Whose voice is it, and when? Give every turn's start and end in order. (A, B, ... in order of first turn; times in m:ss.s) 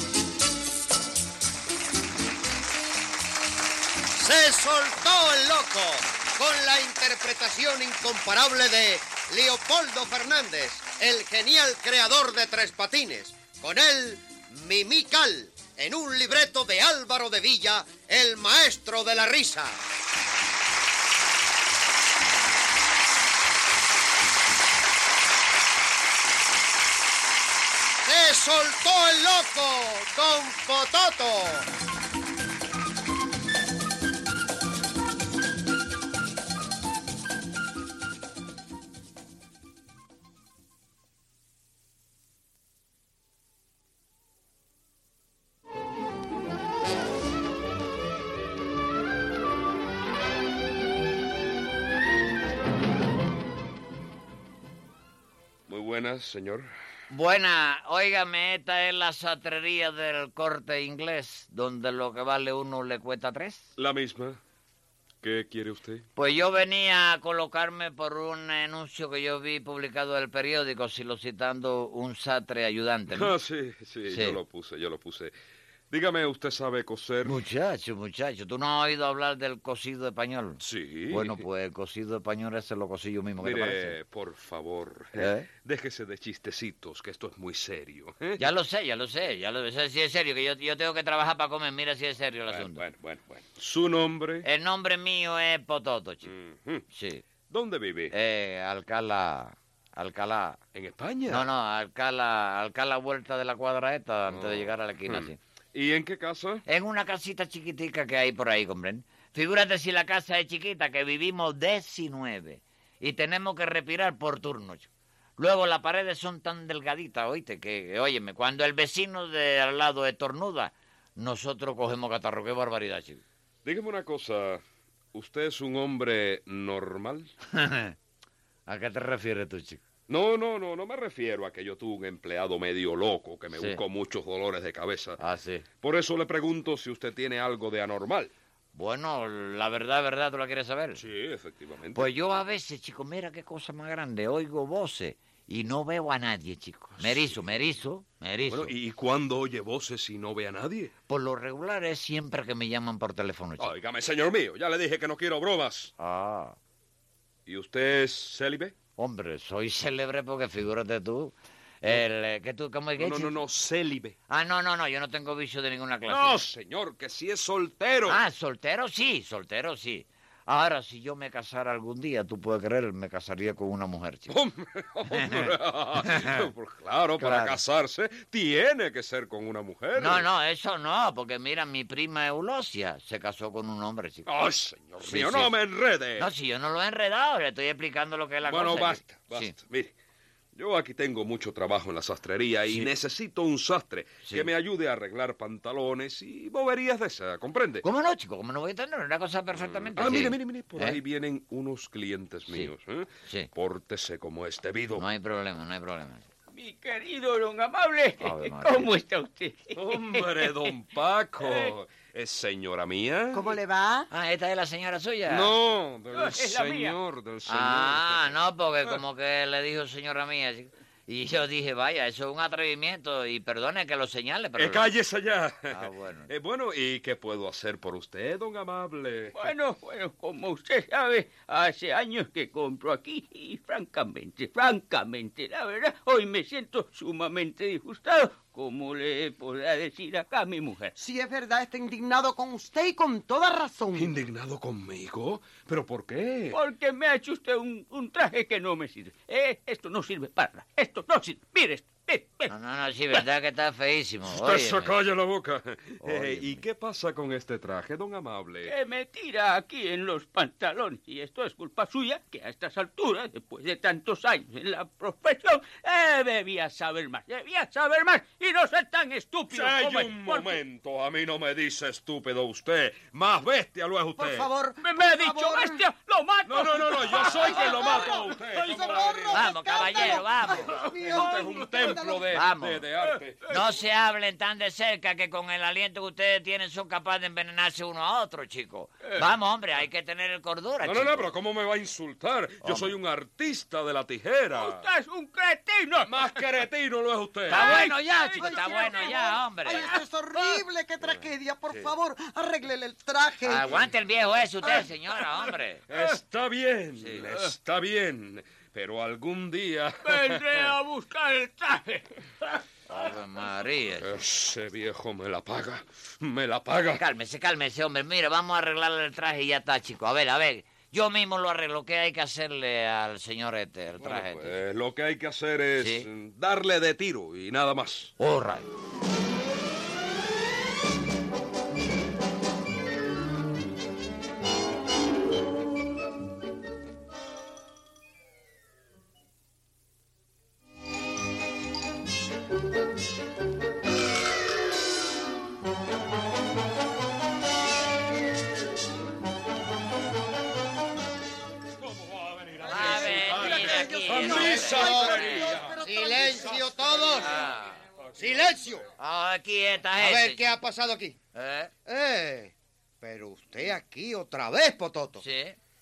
0:04.1-0:19.8 A
0:28.0-0:31.7 A
0:55.7-0:56.7 B
0:57.1-1:03.7 C
1:03.8-1:04.4 B
1:05.2-1:06.0 B
1:06.2-1:13.3 C
1:13.1-1:15.3 B
1:14.1-1:14.4 C
1:15.9-1:17.4 B
1:17.2-1:24.0 C
1:20.6-1:21.4 B
1:23.4-1:28.4 B
1:25.2-1:25.5 C
1:28.4-1:32.8 C
1:32.5-1:34.5 B
1:34.4-1:36.3 C
1:36.2-1:36.8 B
1:36.9-1:37.2 C
1:37.5-1:38.1 B
1:38.1-1:40.6 C
1:40.7-1:41.5 B
1:41.3-1:45.4 C
1:44.3-1:46.6 B
1:46.7-2:03.2 C
2:03.6-2:04.6 B
2:05.1-2:07.3 B
2:07.5-2:08.0 C
2:08.7-2:09.8 C
2:10.1-2:15.2 B
2:13.5-2:13.8 C
2:15.2-2:15.7 C
2:15.8-2:18.3 B
2:18.7-2:21.0 C
2:21.0-2:22.1 B
2:22.0-2:28.7 C
2:27.0-2:27.5 B
2:28.4-2:30.9 B
2:31.1-2:33.7 C
2:33.6-2:35.9 B
2:36.0-2:36.6 C
2:37.5-2:38.7 B
2:39.0-2:43.4 C
2:43.0-2:44.2 B
2:44.3-2:46.4 C
2:46.1-2:48.2 B
2:48.1-2:54.3 C
2:54.3-3:00.3 B
2:55.1-2:56.4 C
2:57.2-2:57.6 C
3:00.0-3:04.3 C
3:04.2-3:06.3 B
3:05.0-3:05.5 C
3:06.2-3:09.5 C
3:08.4-3:09.9 B
3:10.6-3:17.8 B
3:17.8-3:21.0 C
3:19.7-3:25.0 B
3:25.0-3:26.3 C
3:26.5-3:30.8 D
3:28.2-3:28.9 C
3:29.8-3:33.5 B
3:31.4-3:31.7 D
3:33.3-3:34.1 E
3:34.1-3:35.5 C
3:35.3-3:38.4 B
3:36.1-3:37.0 D
3:37.5-3:44.9 C
3:44.6-3:49.5 B
3:45.7-3:46.3 C
3:49.3-4:01.0 D
4:01.0-4:04.1 E
4:03.9-4:06.6 B
4:06.5-4:12.5 D
4:12.5-4:15.0 C
4:14.3-4:18.7 B
4:16.0-4:16.6 C
4:18.6-4:30.6 D
4:29.5-4:34.5 B
4:34.2-4:35.8 E
4:34.8-4:39.0 D
4:36.5-4:40.1 B
4:37.2-4:42.4 E
4:39.3-4:40.7 C
4:40.5-4:41.3 D
4:40.7-4:43.6 B
4:42.3-4:42.8 C
4:43.0-4:43.5 D
4:43.5-4:51.3 C
4:50.8-4:54.8 B
4:52.6-4:52.9 C
4:54.5-4:56.7 D
4:56.0-4:57.8 B
4:57.5-4:59.9 C
4:57.5-5:00.6 D
4:58.4-5:03.7 E
5:03.4-5:05.8 C
5:05.4-5:06.0 D
5:05.9-5:10.7 B
5:07.0-5:07.3 C
5:07.2-5:07.5 D
5:10.0-5:12.6 D
5:12.9-5:14.2 C
5:14.0-5:17.0 B
5:16.9-5:24.6 C
5:24.0-5:28.1 B
5:25.8-5:26.1 C
5:28.2-5:28.7 C
5:51.8-5:55.8 B
5:52.6-5:56.6 E
5:52.6-5:55.6 C
5:54.6-5:55.2 A
5:55.8-5:57.5 A
5:56.6-5:57.1 B
5:57.2-5:57.8 C
5:58.2-5:58.9 A
5:59.0-6:00.4 C
6:00.0-6:01.2 A
6:01.3-6:01.7 C
6:01.9-6:05.2 A
6:05.2-6:05.6 C